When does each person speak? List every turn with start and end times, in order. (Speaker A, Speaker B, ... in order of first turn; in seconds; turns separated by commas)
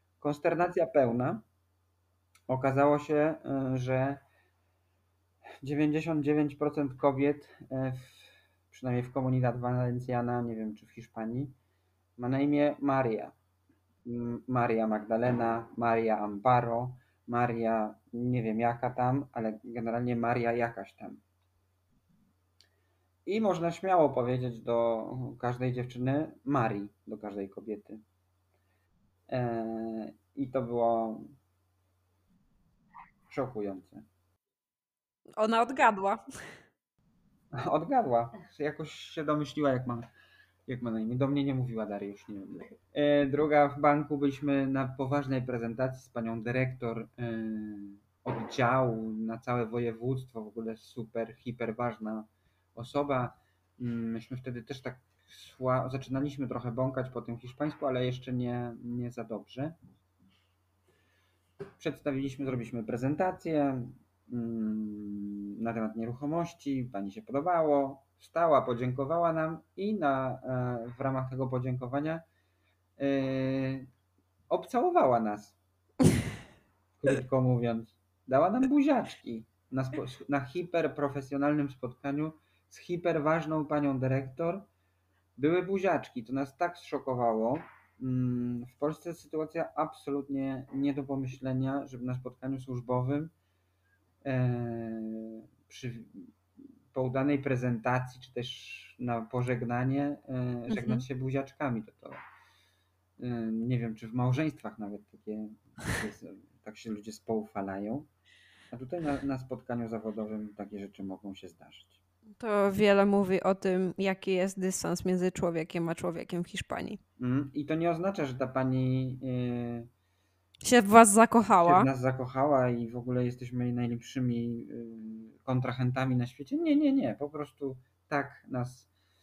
Speaker A: 0.2-1.4, Speaker A: 2.5-4.2, Speaker A: 5.6-11.6, Speaker A: 12.2-13.3, Speaker A: 14.0-21.2, Speaker A: 23.2-28.0, Speaker A: 29.3-31.4, Speaker A: 33.3-34.0, Speaker B: 35.4-36.2, Speaker A: 37.5-40.1, Speaker A: 40.7-59.7, Speaker A: 61.8-72.2, Speaker A: 73.0-73.9, Speaker A: 74.5-75.6, Speaker A: 77.0-84.7, Speaker A: 85.4-93.3, Speaker A: 94.2-96.3, Speaker A: 96.9-102.2, Speaker B: 100.7-101.0, Speaker A: 103.2-108.1, Speaker A: 108.7-112.0, Speaker B: 112.4-117.0, Speaker A: 117.2-119.9, Speaker B: 120.6-121.9, Speaker A: 121.6-128.9